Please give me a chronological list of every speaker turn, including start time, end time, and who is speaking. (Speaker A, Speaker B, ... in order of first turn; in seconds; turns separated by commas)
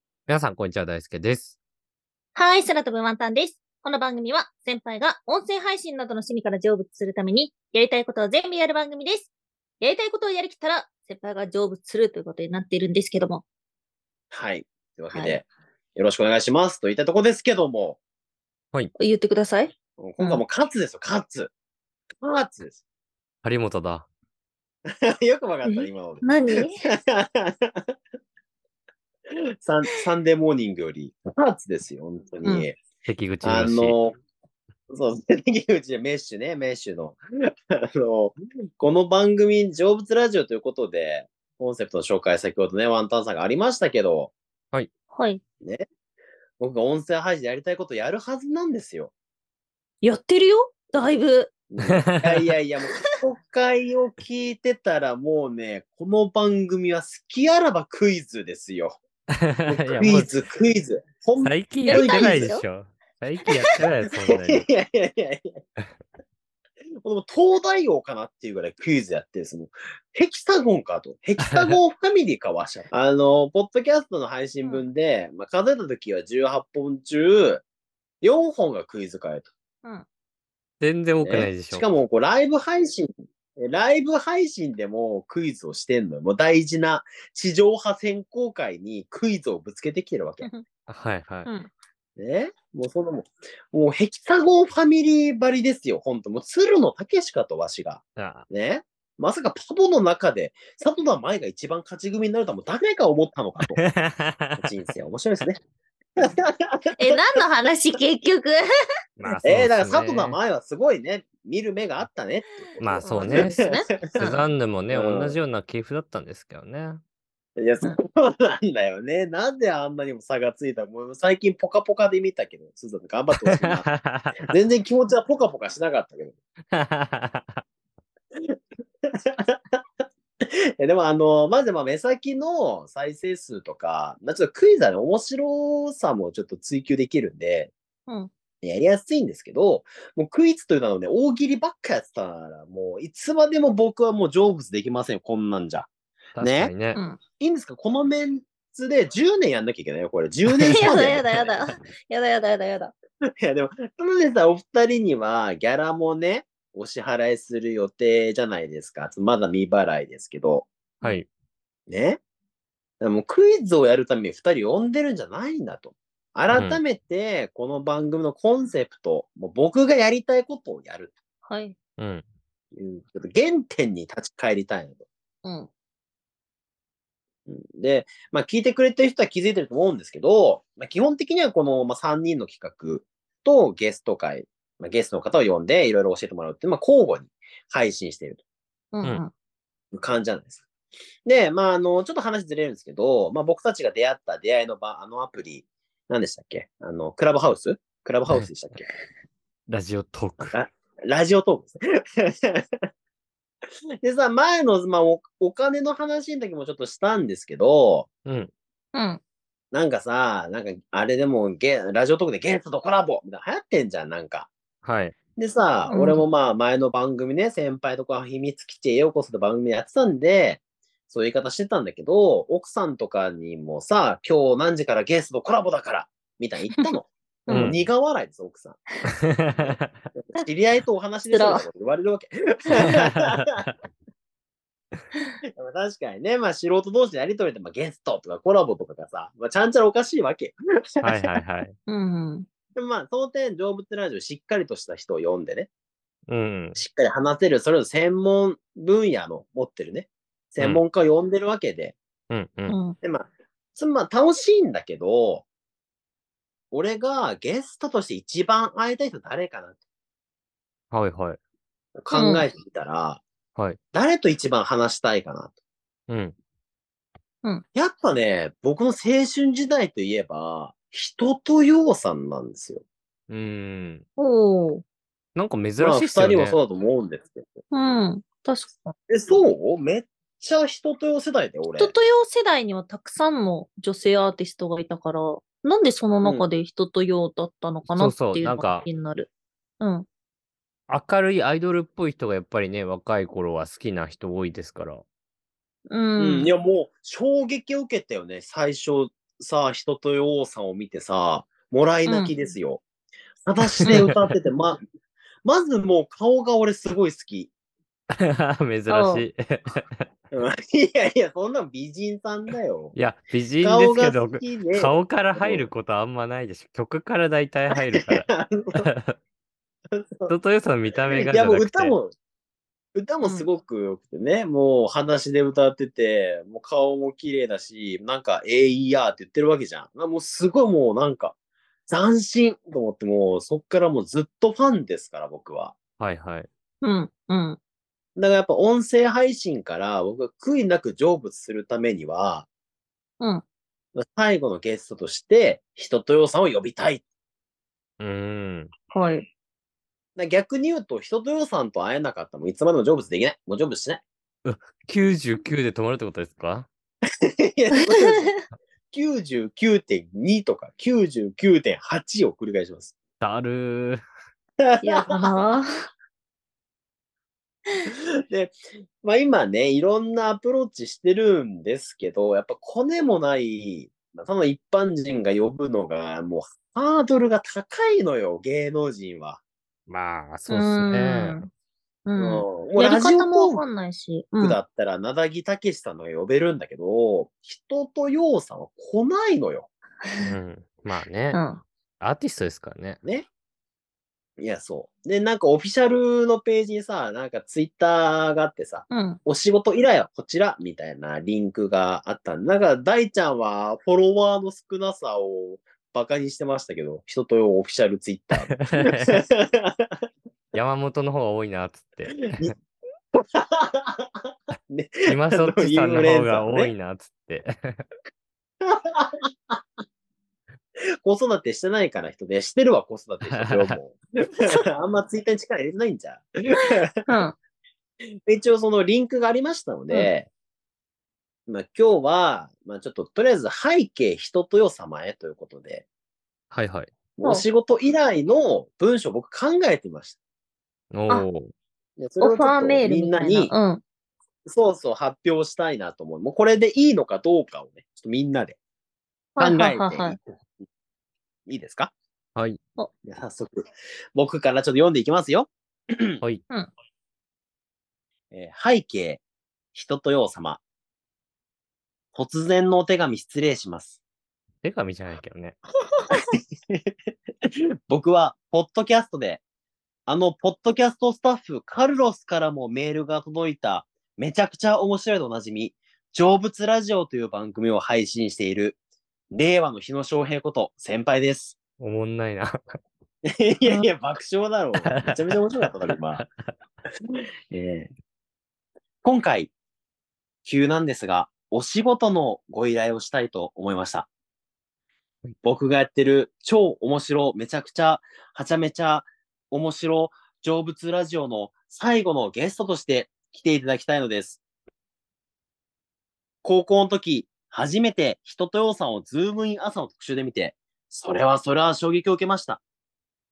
Speaker A: 0.3-1.6, Speaker B: 2.3-13.4, Speaker C: 14.3-15.4, Speaker B: 15.1-15.4, Speaker C: 15.9-18.0, Speaker B: 19.0-20.4, Speaker C: 20.0-21.5, Speaker C: 22.2-22.8, Speaker A: 23.4-24.1, Speaker C: 24.9-27.8, Speaker B: 25.6-26.8, Speaker C: 29.6-32.8, Speaker A: 33.0-34.0, Speaker C: 33.4-34.1, Speaker C: 34.9-44.3, Speaker B: 45.1-45.4, Speaker C: 46.6-49.1, Speaker B: 50.0-51.5, Speaker C: 51.7-59.0, Speaker A: 51.9-52.5, Speaker A: 59.5-60.3, Speaker C: 59.6-62.5, Speaker A: 61.4-64.7, Speaker B: 61.9-62.6, Speaker C: 64.1-65.6, Speaker C: 67.0-77.6, Speaker A: 71.4-71.8, Speaker C: 78.2-79.5, Speaker A: 80.8-81.8, Speaker C: 81.2-90.5, Speaker A: 90.9-91.5, Speaker B: 91.4-91.7, Speaker C: 92.2-103.8, Speaker A: 98.2-98.5, Speaker A: 103.7-104.6, Speaker C: 104.6-105.6, Speaker C: 106.2-106.8, Speaker B: 107.0-108.6, Speaker A: 109.2-110.4, Speaker C: 109.4-114.4, Speaker A: 112.8-113.5, Speaker B: 112.9-114.4, Speaker A: 114.2-117.0, Speaker C: 114.9-115.4, Speaker C: 117.6-126.3, Speaker A: 123.4-124.5, Speaker A: 126.7-127.6, Speaker C: 129.1-129.8, Speaker C: 130.4-137.7, Speaker C: 138.6-145.9, Speaker A: 146.3-147.0, Speaker C: 146.4-146.7, Speaker C: 147.4-151.6, Speaker B: 150.7-152.9, Speaker C: 153.4-160.7, Speaker A: 161.0-161.3, Speaker C: 161.9-162.2, Speaker C: 163.0-171.1, Speaker A: 166.5-166.8, Speaker B: 171.4-171.8, Speaker A: 172.0-172.2, Speaker C: 172.7-175.0, Speaker B: 175.4-175.7, Speaker C: 177.5-188.4, Speaker B: 188.9-189.3, Speaker C: 189.9-190.6, Speaker C: 191.2-198.9, Speaker A: 199.7-200.6, Speaker C: 200.5-202.8, Speaker C: 204.0-208.1, Speaker A: 208.2-208.5, Speaker B: 208.9-209.2, Speaker C: 209.7-214.5, Speaker A: 214.8-215.1, Speaker C: 215.4-228.8, Speaker B: 215.9-216.2, Speaker B: 227.5-227.7, Speaker A: 227.5-227.8, Speaker C: 229.4-229.8, Speaker A: 229.6-229.9, Speaker C: 230.3-233.6, Speaker B: 231.3-231.6, Speaker A: 232.8-233.7, Speaker C: 235.6-241.3, Speaker A: 241.0-241.7, Speaker B: 241.9-242.5, Speaker C: 242.7-245.7, Speaker A: 246.3-246.8, Speaker C: 246.8-251.9, Speaker A: 252.3-252.8, Speaker B: 252.7-252.9, Speaker C: 253.0-255.4, Speaker C: 256.7-259.8, Speaker A: 260.9-261.4, Speaker C: 262.0-263.2, Speaker B: 262.1-262.5, Speaker C: 263.9-265.5, Speaker A: 266.1-266.3, Speaker C: 267.7-272.8, Speaker A: 273.3-274.0, Speaker B: 274.2-274.8, Speaker A: 275.3-276.6, Speaker C: 275.8-277.6, Speaker B: 277.7-278.9, Speaker C: 279.1-281.9, Speaker B: 281.8-289.3, Speaker A: 287.9-288.9, Speaker B: 289.8-290.1, Speaker A: 290.9-295.0, Speaker B: 295.9-296.5, Speaker C: 296.2-302.8, Speaker B: 302.1-302.3, Speaker C: 303.4-304.8, Speaker A: 303.8-304.2, Speaker C: 305.4-307.5, Speaker A: 308.2-310.1, Speaker B: 308.9-309.2, Speaker C: 310.3-312.9, Speaker A: 312.9-319.1, Speaker C: 313.6-315.7, Speaker C: 318.1-318.8, Speaker C: 319.9-320.3, Speaker A: 320.3-321.9, Speaker C: 321.1-322.1, Speaker C: 322.9-331.4, Speaker C: 331.9-335.8, Speaker A: 336.0-336.5, Speaker B: 336.8-337.6, Speaker C: 338.1-342.5, Speaker C: 343.9-347.0, Speaker A: 348.0-348.7, Speaker B: 348.9-349.3, Speaker C: 350.1-354.0, Speaker A: 354.4-356.7, Speaker C: 357.4-358.3, Speaker C: 358.9-362.9, Speaker A: 363.2-364.0, Speaker C: 364.6-365.1, Speaker B: 364.8-365.7, Speaker C: 368.3-379.4, Speaker A: 379.9-381.4, Speaker B: 380.5-381.5, Speaker B: 382.1-384.6, Speaker C: 382.2-383.6, Speaker C: 384.4-389.7, Speaker A: 390.2-391.4, Speaker B: 391.3-391.6, Speaker A: 392.0-393.0, Speaker C: 394.4-410.0, Speaker B: 398.9-399.2, Speaker A: 408.4-409.2, Speaker A: 410.5-412.5, Speaker C: 413.1-416.7, Speaker A: 415.1-417.9, Speaker C: 418.6-419.6, Speaker C: 421.0-426.8, Speaker A: 423.2-423.8, Speaker B: 427.1-427.3, Speaker C: 428.2-430.3, Speaker C: 431.5-435.9, Speaker A: 436.5-436.9, Speaker C: 437.1-440.2, Speaker A: 440.9-441.5, Speaker C: 442.0-443.5, Speaker B: 442.2-443.8, Speaker C: 444.4-448.6, Speaker B: 449.4-450.1, Speaker C: 449.4-450.6, Speaker C: 451.4-451.9, Speaker C: 453.0-456.2, Speaker C: 458.3-459.2, Speaker C: 459.7-460.6, Speaker C: 462.1-464.0, Speaker A: 464.6-465.6, Speaker C: 466.1-466.9, Speaker C: 467.5-469.4, Speaker C: 470.1-478.8, Speaker C: 479.3-481.6, Speaker A: 481.8-482.6, Speaker C: 483.3-486.2, Speaker A: 484.8-486.5, Speaker C: 487.5-487.9, Speaker C: 489.0-489.5, Speaker C: 490.4-494.1, Speaker C: 495.4-504.4, Speaker C: 506.4-512.6